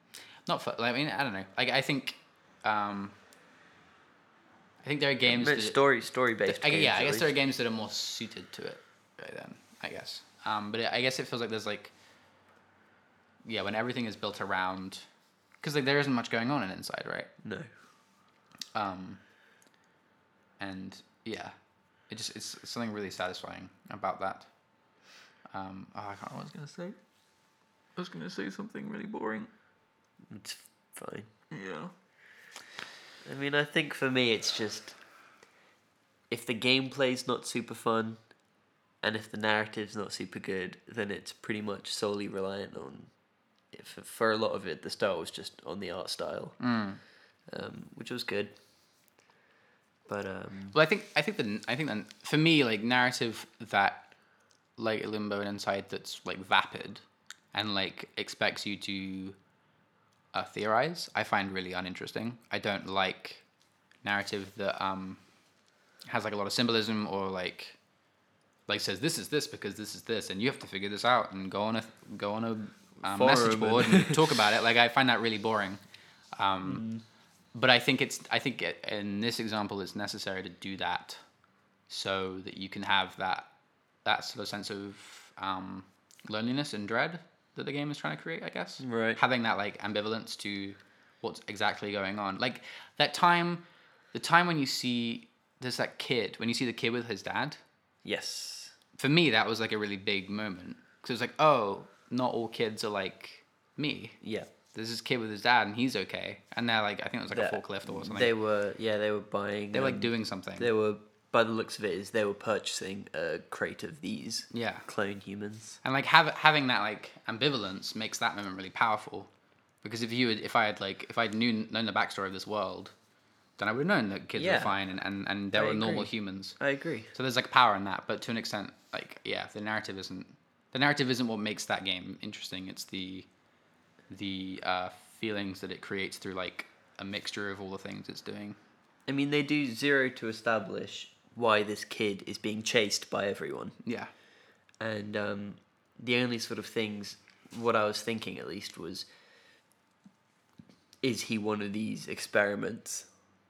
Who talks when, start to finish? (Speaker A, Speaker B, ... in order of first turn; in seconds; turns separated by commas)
Speaker A: 0.5-3.1, Speaker A: 4.8-5.8, Speaker B: 5.2-7.3, Speaker A: 6.5-11.9, Speaker A: 13.4-15.1, Speaker A: 15.6-17.3, Speaker B: 17.4-17.7, Speaker A: 18.8-19.2, Speaker A: 20.6-21.5, Speaker A: 22.1-24.5, Speaker A: 25.5-26.9, Speaker A: 28.0-29.5, Speaker B: 30.3-31.3, Speaker A: 31.6-31.9, Speaker B: 33.2-35.0, Speaker B: 36.3-38.2, Speaker B: 39.0-43.1, Speaker B: 43.7-46.6, Speaker A: 46.6-47.0, Speaker B: 47.5-48.5, Speaker B: 50.1-50.8, Speaker A: 50.7-54.1, Speaker A: 54.8-57.0, Speaker A: 57.5-59.4, Speaker A: 60.3-63.5, Speaker A: 64.0-65.2, Speaker A: 66.1-67.8, Speaker A: 68.7-75.8, Speaker B: 73.0-74.4, Speaker A: 76.4-76.9, Speaker B: 76.6-77.0, Speaker A: 77.5-81.2, Speaker A: 81.9-83.5, Speaker A: 84.0-97.6, Speaker B: 88.8-89.2, Speaker B: 98.0-98.8, Speaker A: 99.0-104.2, Speaker B: 104.2-104.5, Speaker A: 104.7-108.3, Speaker B: 107.3-115.8, Speaker A: 109.7-110.7, Speaker A: 114.5-114.9, Speaker A: 115.8-119.3, Speaker A: 119.8-122.9, Speaker A: 123.6-126.6, Speaker B: 124.4-124.8, Speaker B: 125.5-127.1, Speaker A: 127.1-133.3, Speaker A: 134.1-138.6, Speaker B: 139.1-143.8, Speaker A: 143.8-144.1, Speaker B: 144.8-149.1, Speaker B: 151.0-153.1